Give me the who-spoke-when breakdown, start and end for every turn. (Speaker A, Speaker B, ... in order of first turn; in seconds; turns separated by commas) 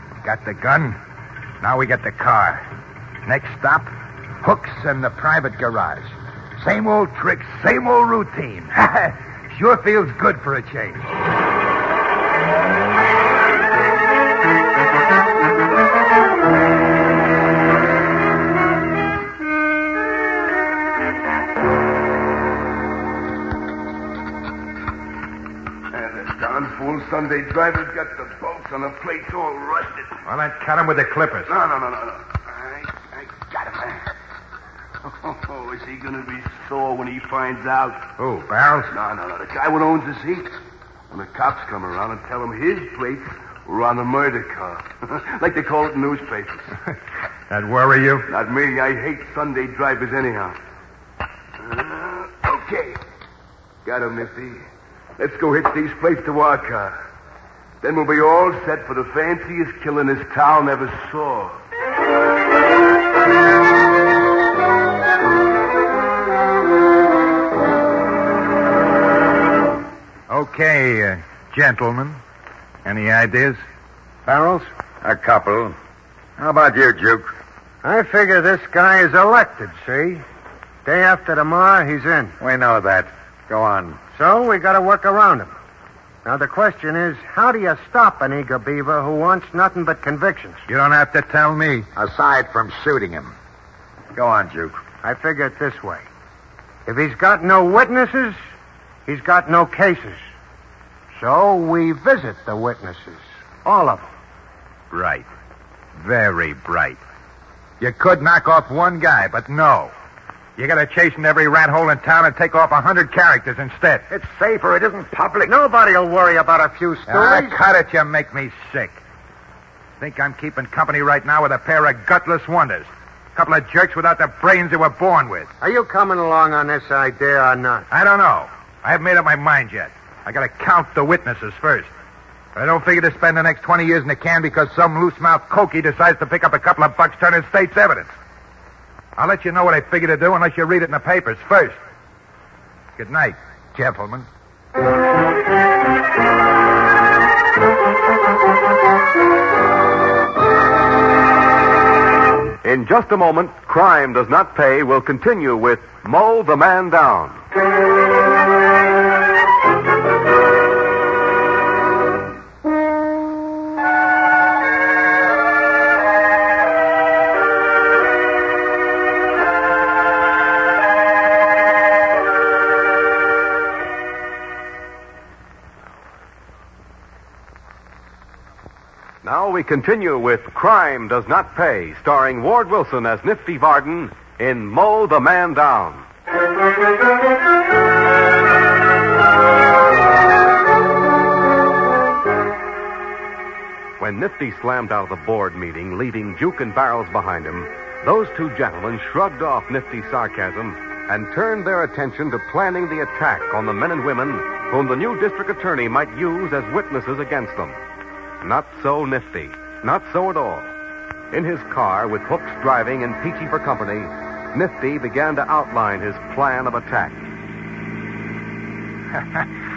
Speaker A: 0.2-1.0, Speaker A: 1.6-2.6, Speaker A: 3.2-11.1, Speaker B: 25.9-30.1, Speaker A: 30.2-31.5, Speaker B: 31.5-34.0, Speaker B: 35.2-38.0, Speaker A: 38.2-38.9, Speaker B: 38.9-40.5, Speaker B: 41.1-46.6, Speaker A: 47.5-48.3, Speaker B: 48.3-50.5, Speaker B: 51.6-53.0, Speaker B: 53.9-54.6, Speaker B: 55.2-56.9, Speaker B: 57.8-61.5, Speaker A: 70.3-72.2, Speaker A: 72.8-73.6, Speaker C: 74.2-74.7, Speaker D: 75.0-75.8, Speaker D: 76.4-77.3, Speaker C: 77.8-80.2, Speaker C: 80.8-82.3, Speaker D: 82.4-84.0, Speaker C: 84.1-85.5, Speaker C: 86.2-90.6, Speaker A: 90.7-91.9, Speaker D: 92.0-93.3, Speaker D: 94.1-94.8, Speaker C: 95.0-96.1, Speaker C: 96.8-98.4, Speaker C: 99.0-100.2, Speaker C: 101.1-104.1, Speaker A: 104.9-105.2, Speaker A: 106.0-107.0, Speaker A: 107.8-109.9, Speaker A: 110.6-114.0, Speaker D: 114.1-115.5, Speaker C: 115.5-117.5, Speaker A: 117.1-119.0, Speaker A: 120.0-125.5, Speaker C: 125.6-127.9, Speaker A: 127.9-131.9, Speaker A: 132.5-138.1, Speaker A: 139.2-141.8, Speaker A: 142.9-144.3, Speaker E: 152.6-157.4, Speaker E: 179.2-186.1, Speaker E: 194.0-207.8, Speaker E: 208.4-210.7, Speaker E: 211.3-217.2, Speaker A: 219.1-219.5